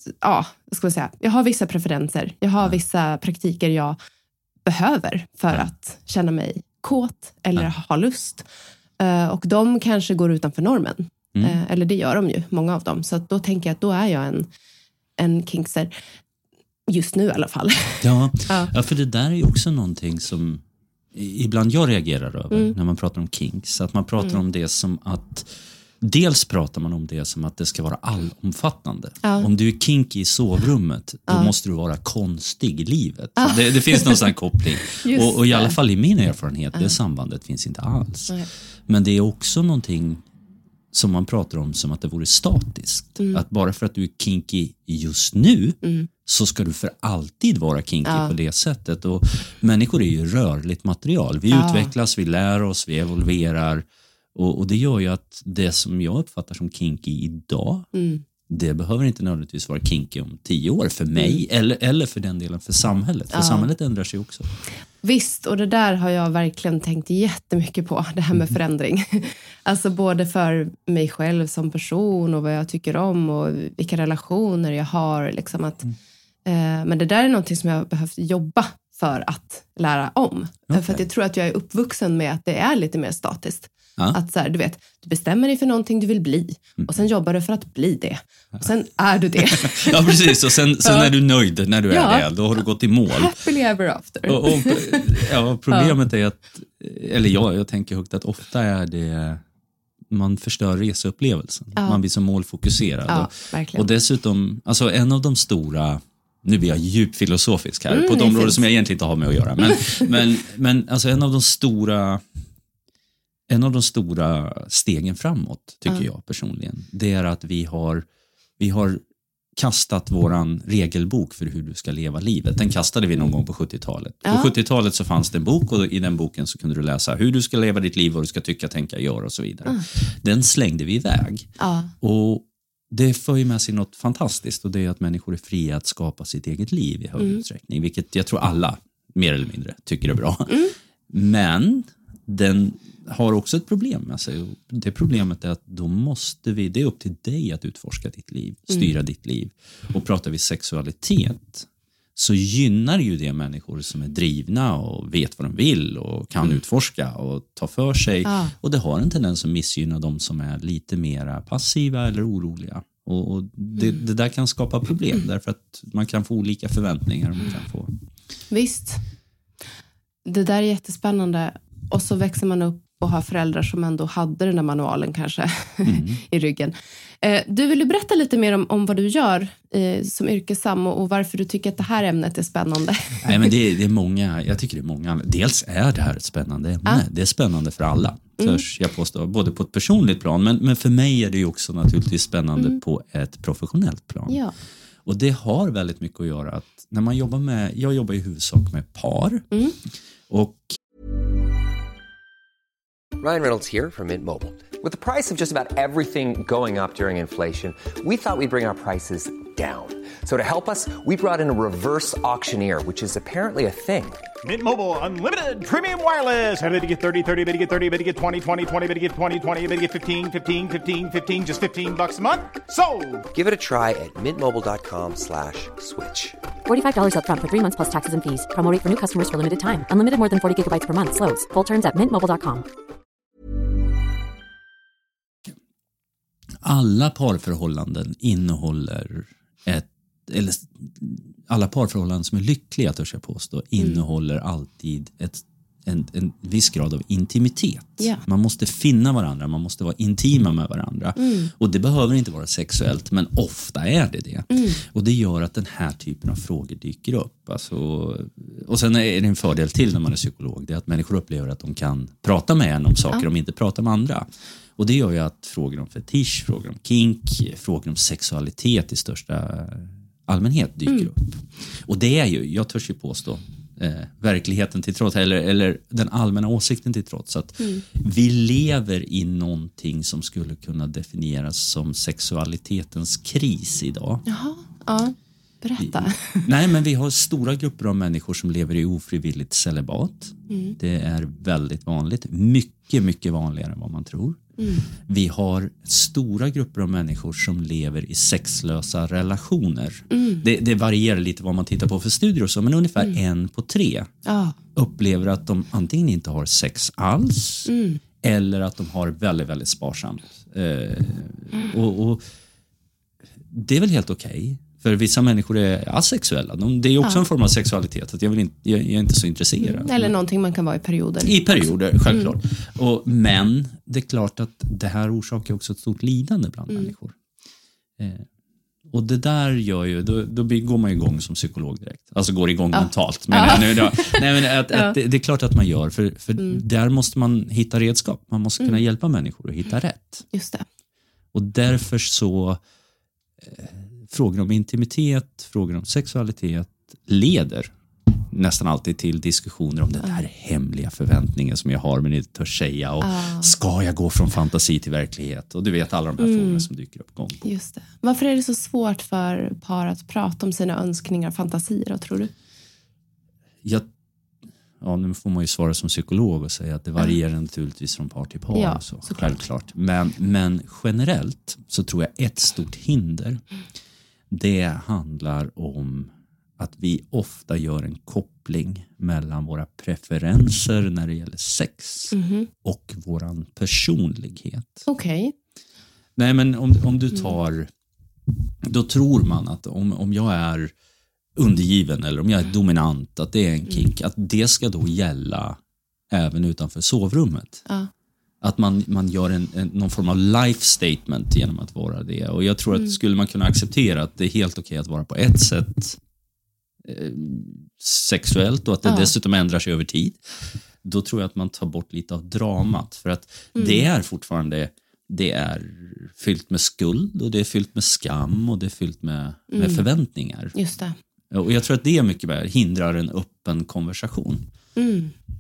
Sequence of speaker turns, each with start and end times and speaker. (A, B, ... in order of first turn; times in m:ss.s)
0:00.2-0:04.0 A
0:04.7-0:08.5 A
0:09.0-0:14.5 A
0:15.2-0:15.9 A
0:16.9-0:18.7 A
0:18.0-0:20.6 B
0:21.1-0:25.5 B
0:26.0-0:38.4 B
0:29.2-0:29.5 A
0:33.4-0:34.2 A
0:34.9-0:35.8 A
0:38.9-0:40.3 B
0:40.9-0:57.9 B
0:45.8-0:46.1 A
0:48.0-0:48.3 A
0:51.5-0:51.9 A
0:57.9-0:58.2 A
0:58.5-1:04.5 B
1:03.3-1:03.7 A
1:05.0-1:15.9 A
1:16.4-1:31.1 A
1:20.7-1:21.0 B
1:29.4-1:33.4 B
1:31.9-1:32.3 A
1:33.1-1:36.0 A
1:34.3-1:39.4 B
1:40.1-1:52.2 B
1:43.1-1:43.9 A
1:47.9-1:48.6 A
1:53.5-1:58.0 B
1:58.6-1:59.0 B
1:59.6-2:11.5 B
2:04.2-2:04.5 A
2:11.6-2:11.9 A
2:12.0-2:20.6 B
2:20.5-2:20.7 A
2:21.1-2:47.9 B
2:38.2-2:38.5 A
2:48.5-2:49.0 A
2:50.2-3:03.5 A
2:55.8-2:56.2 B
3:03.2-3:14.4 B
3:08.4-3:08.6 A
3:14.3-3:14.5 A
3:15.1-3:19.5 B
3:20.3-3:20.8 B
3:23.2-3:34.2 C
3:34.4-3:43.3 D
3:43.3-3:46.4 C
3:46.7-3:52.6 E
3:56.6-4:44.2 B
4:11.2-4:11.5 A
4:14.5-4:14.8 A
4:44.3-4:46.5 A
4:45.8-4:54.4 B
4:50.5-4:50.8 A
4:54.6-4:54.9 A
4:55.0-5:04.1 B
5:00.1-5:00.4 A
5:04.3-5:04.6 A
5:04.8-5:07.7 B
5:07.7-5:08.0 A
5:08.2-5:12.2 B
5:13.5-5:20.1 B
5:19.6-5:22.3 A
5:21.2-5:27.2 B
5:28.0-5:28.3 B
5:28.9-5:40.3 B
5:32.7-5:35.0 A
5:36.4-5:36.6 A
5:40.3-5:40.6 A
5:41.3-5:42.6 B
5:43.4-5:47.7 B
5:48.3-5:57.5 B
5:53.0-5:53.5 A
5:56.2-5:56.7 A
5:57.4-6:02.3 A
6:03.6-6:03.9 B
6:04.8-6:13.4 B
6:08.5-6:09.4 A
6:14.3-6:24.8 B
6:22.1-6:22.5 A
6:24.9-6:25.3 A
6:26.2-6:27.7 B
6:28.6-6:30.7 B
6:31.4-6:35.6 B
6:36.1-6:37.6 B
6:38.4-6:46.0 B
6:46.8-7:00.5 B
6:48.8-6:49.1 A
6:53.6-6:53.9 A
6:59.5-6:59.9 A
7:00.5-7:01.0 A
7:01.3-7:04.5 B
7:04.8-7:05.1 A